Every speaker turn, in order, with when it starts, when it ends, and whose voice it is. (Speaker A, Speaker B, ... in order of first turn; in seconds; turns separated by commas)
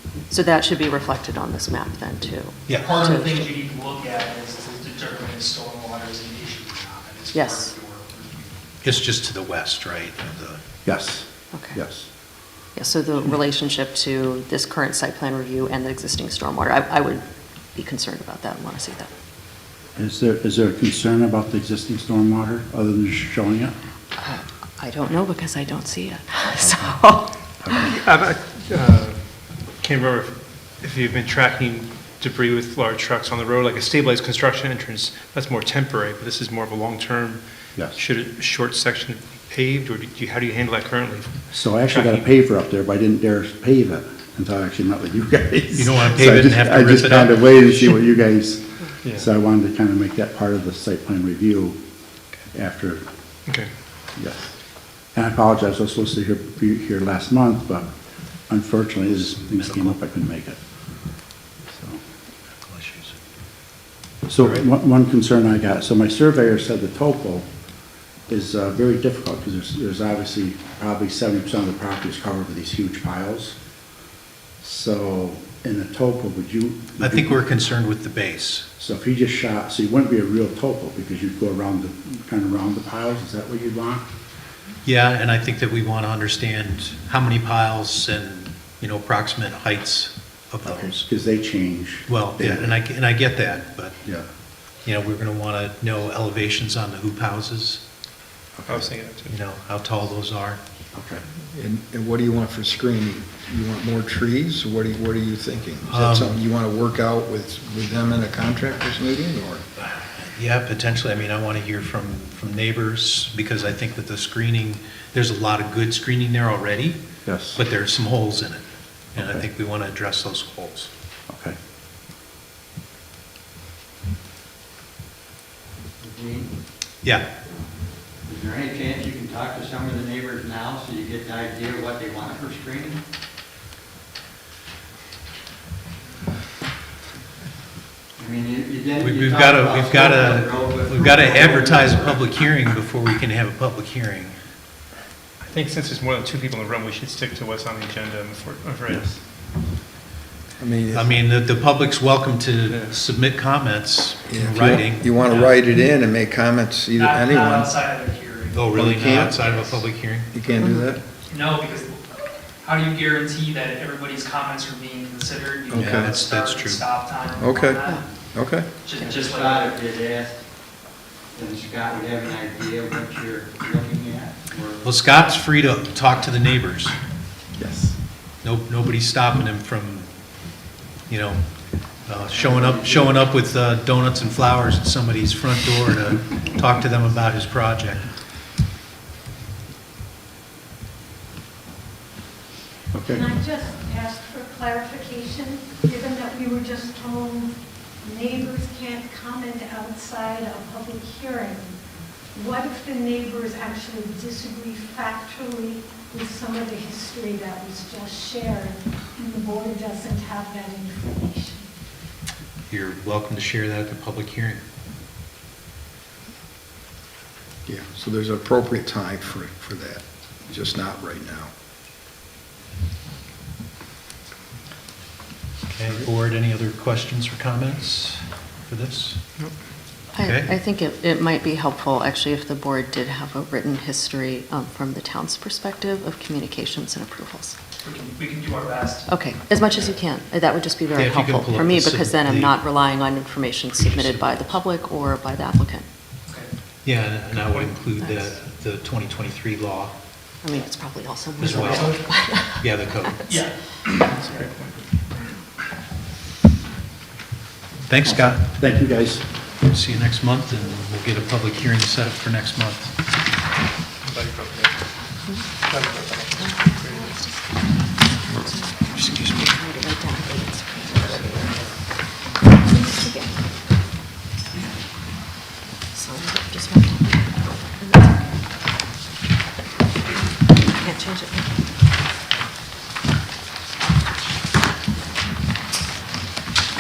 Speaker A: 0.3-3.5, Speaker B: 2.8-8.6, Speaker A: 7.3-7.7, Speaker C: 8.8-10.6, Speaker D: 10.8-12.1, Speaker A: 11.5-11.8, Speaker A: 12.8-19.1, Speaker D: 20.0-23.8, Speaker A: 24.2-27.5, Speaker D: 26.6-27.0, Speaker D: 27.6-27.9, Speaker E: 27.9-42.3, Speaker D: 41.5-51.8, Speaker C: 45.7-48.0, Speaker D: 52.5-53.0, Speaker D: 54.2-54.5, Speaker D: 55.1-57.9, Speaker D: 58.5-60.6, Speaker C: 59.2-60.0, Speaker D: 61.7-62.0, Speaker C: 62.6-63.1, Speaker D: 64.3-67.5, Speaker C: 64.4-64.6, Speaker D: 68.3-73.6, Speaker D: 74.6-77.5, Speaker C: 77.0-78.7, Speaker D: 78.8-84.1, Speaker C: 84.8-91.0, Speaker D: 90.6-92.8, Speaker C: 92.1-94.0, Speaker C: 94.8-97.8, Speaker D: 98.6-98.8, Speaker E: 98.7-99.4, Speaker C: 99.3-100.6, Speaker D: 100.9-101.2, Speaker F: 101.5-109.6, Speaker C: 105.9-106.3, Speaker C: 109.8-117.0, Speaker D: 117.2-117.6, Speaker C: 117.5-118.6, Speaker C: 119.1-120.9, Speaker D: 119.2-119.5, Speaker D: 121.3-121.6, Speaker G: 126.0-126.5, Speaker G: 128.2-133.0, Speaker G: 138.2-142.2, Speaker C: 139.0-144.4, Speaker E: 145.4-149.1, Speaker D: 148.9-149.2, Speaker F: 150.6-151.2, Speaker C: 150.9-155.1, Speaker E: 152.7-153.0, Speaker F: 154.3-157.7, Speaker B: 155.2-155.6, Speaker B: 157.0-159.8, Speaker C: 158.5-160.3, Speaker F: 158.7-159.3, Speaker F: 160.3-161.0, Speaker A: 160.6-160.9, Speaker B: 161.3-162.0, Speaker B: 162.6-168.0, Speaker F: 165.7-166.1, Speaker C: 165.7-166.9, Speaker F: 167.4-168.7, Speaker B: 168.8-169.8, Speaker G: 169.1-170.4, Speaker G: 171.3-174.8, Speaker C: 174.8-176.9, Speaker F: 177.6-177.9, Speaker C: 178.4-180.1, Speaker C: 181.1-181.4, Speaker C: 182.1-188.1, Speaker G: 182.3-183.2, Speaker D: 192.9-193.3, Speaker H: 193.2-197.5, Speaker A: 196.7-197.2, Speaker H: 198.1-201.7, Speaker A: 199.6-200.0, Speaker A: 202.4-209.4, Speaker H: 202.4-203.1, Speaker H: 207.6-208.3, Speaker H: 209.4-211.6, Speaker A: 210.4-211.4, Speaker C: 212.7-214.6, Speaker F: 217.7-221.5, Speaker C: 225.7-229.2, Speaker A: 230.1-237.6, Speaker C: 230.2-230.6, Speaker B: 237.8-239.9, Speaker A: 239.1-245.9, Speaker C: 240.9-242.6, Speaker C: 243.8-244.6, Speaker C: 246.8-249.9, Speaker A: 250.4-252.7, Speaker C: 251.4-252.0, Speaker B: 251.4-251.9, Speaker C: 252.6-253.3, Speaker B: 253.3-254.5, Speaker E: 254.2-254.9, Speaker C: 257.9-258.5, Speaker D: 258.2-259.2, Speaker C: 259.6-262.9, Speaker E: 264.1-264.9, Speaker E: 265.6-267.2, Speaker A: 266.4-267.5, Speaker A: 268.3-268.7, Speaker C: 268.9-269.4, Speaker A: 269.4-271.5, Speaker E: 271.1-271.7, Speaker A: 272.7-273.3, Speaker A: 275.9-278.1, Speaker A: 280.8-281.5